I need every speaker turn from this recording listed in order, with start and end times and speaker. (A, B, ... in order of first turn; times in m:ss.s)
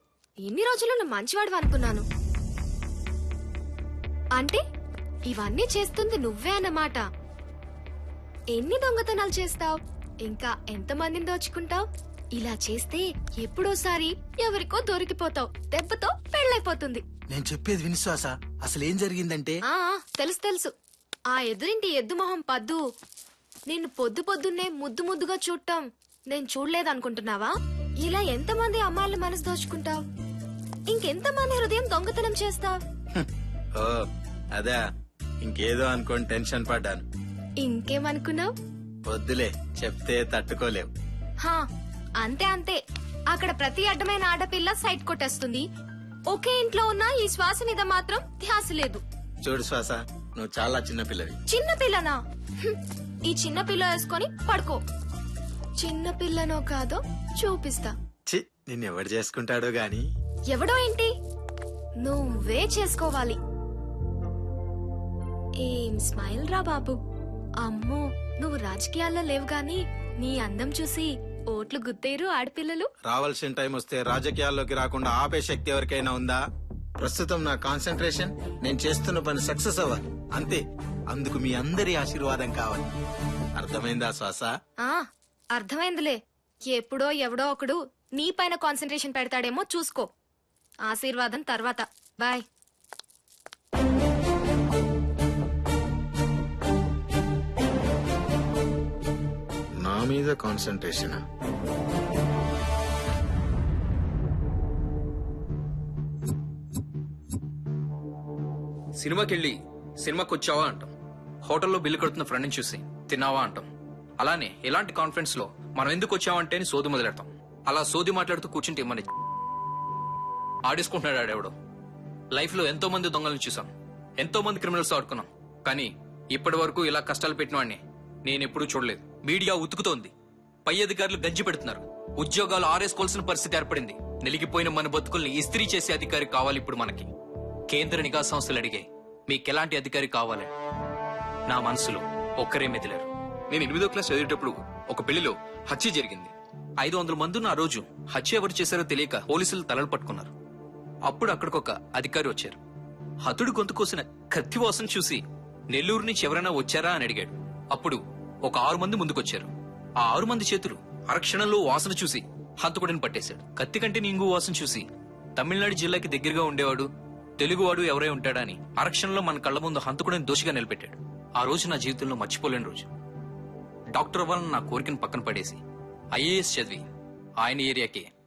0:00.4-0:02.0 A
0:04.4-0:04.6 A
0:05.3-0:07.0 A
0:08.5-0:11.8 A
0:12.4-0:17.0 A
0:17.3-0:19.6 B
0:19.7-0:20.7 A
0:21.3-0:22.8 A
0:23.7-0:30.0 A
0:30.9-0:32.8 A
0:33.2-0:34.0 B
0:35.4-0:37.0 B
0:37.6-0:38.5 A
0:39.1-0:40.9 B
0:42.2-0:42.8 A
0:43.3-0:45.6 A
0:46.3-0:49.0 A
0:49.4-0:51.4 B
0:51.5-0:52.8 A
0:53.3-0:54.8 A
0:55.8-0:57.9 A
0:58.3-1:00.0 B
1:00.5-1:01.1 A
1:02.0-1:03.4 A
1:05.6-1:07.0 A
1:07.6-1:12.9 A
1:13.0-1:16.4 B
1:17.0-1:22.9 B
1:23.6-1:24.5 B
1:25.6-1:26.2 A
1:26.7-1:30.1 A
1:30.9-1:32.4 A
1:39.8-1:41.2 B
1:49.0-1:50.9 C
1:51.4-1:53.7 C
1:54.2-1:59.1 C
2:00.7-2:01.5 C
2:02.3-2:10.1 C
2:10.7-2:17.1 C
2:17.7-2:20.5 C
2:21.5-2:30.3 C
2:31.1-2:32.6 C
2:33.2-2:39.5 C
2:40.0-2:46.9 C
2:47.4-2:52.9 C
2:54.0-2:55.6 C
2:56.1-2:56.9 C
2:57.4-2:58.1 C